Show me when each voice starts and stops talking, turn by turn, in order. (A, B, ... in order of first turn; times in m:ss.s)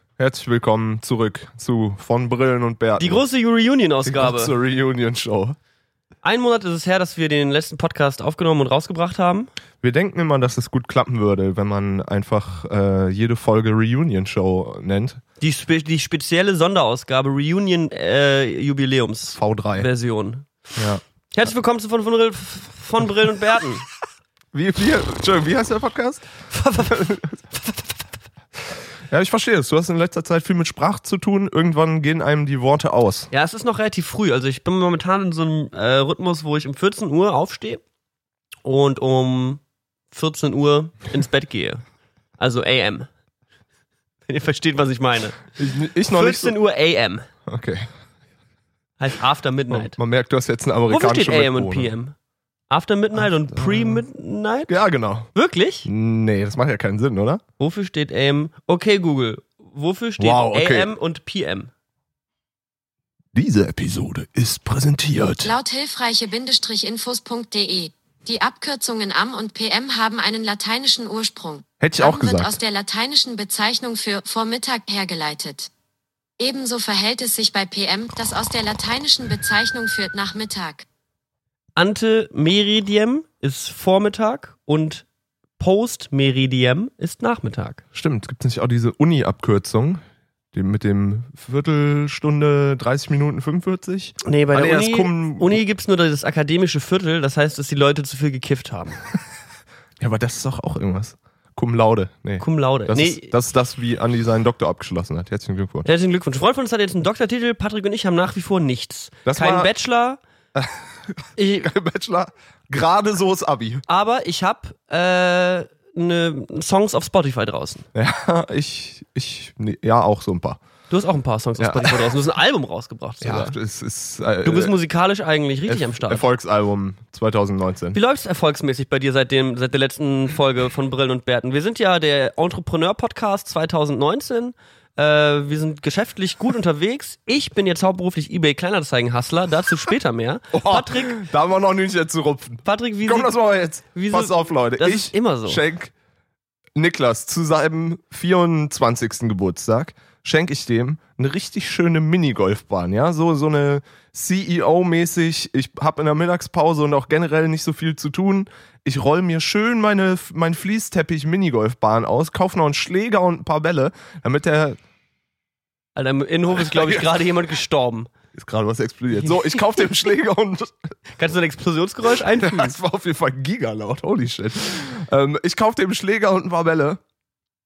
0:00.2-0:03.2 A
0:03.0-0:04.5 B
0:04.0-0:05.6 A
0:06.2-0:09.5 B
0:09.8-0:15.2 A
0:15.4-0:20.7 B
0:19.4-0:19.9 A
0:21.3-0:23.9 B
0:24.5-0:26.2 A
0:26.5-0:27.8 B
0:26.9-0:27.3 A
0:29.1-0:33.3 A
0:33.3-0:37.8 B
0:38.6-0:41.8 B
0:42.4-0:43.1 B
0:44.3-0:45.5 B
0:45.6-0:46.6 A
0:46.1-0:47.3 B
0:47.5-0:47.9 A
0:49.0-0:50.0 B
0:49.7-0:51.9 A
0:50.9-0:52.2 B
0:52.7-0:54.8 B
0:53.2-0:54.0 A
0:54.7-0:55.3 A
0:55.3-0:55.9 B
0:55.8-0:57.4 A
0:57.6-1:01.7 B
1:00.2-1:00.9 A
1:03.4-1:05.6 A
1:05.4-1:15.7 C
1:11.8-1:12.5 A
1:16.4-1:20.9 C
1:21.8-1:25.1 B
1:25.6-1:27.8 B
1:28.0-1:30.0 A
1:30.5-1:35.6 A
1:34.2-1:39.0 B
1:40.0-1:45.9 A
1:42.4-1:43.3 B
1:45.8-1:50.2 B
1:49.3-1:49.7 A
1:50.6-1:53.8 A
1:51.4-1:51.7 B
1:53.9-1:57.9 B
1:57.9-2:00.6 A
2:00.9-2:03.6 B
2:01.6-2:02.1 A
2:03.2-2:04.7 A
2:04.4-2:06.3 B
2:05.7-2:08.0 A
2:07.9-2:21.2 B
2:20.5-2:25.9 A
2:22.6-2:23.4 B
2:23.9-2:25.6 B
2:26.8-2:44.8 A
2:46.0-2:48.1 B
2:46.6-2:47.2 A
2:48.3-2:50.9 A
2:49.1-2:49.9 B
2:51.2-2:52.8 B
2:52.4-2:57.0 A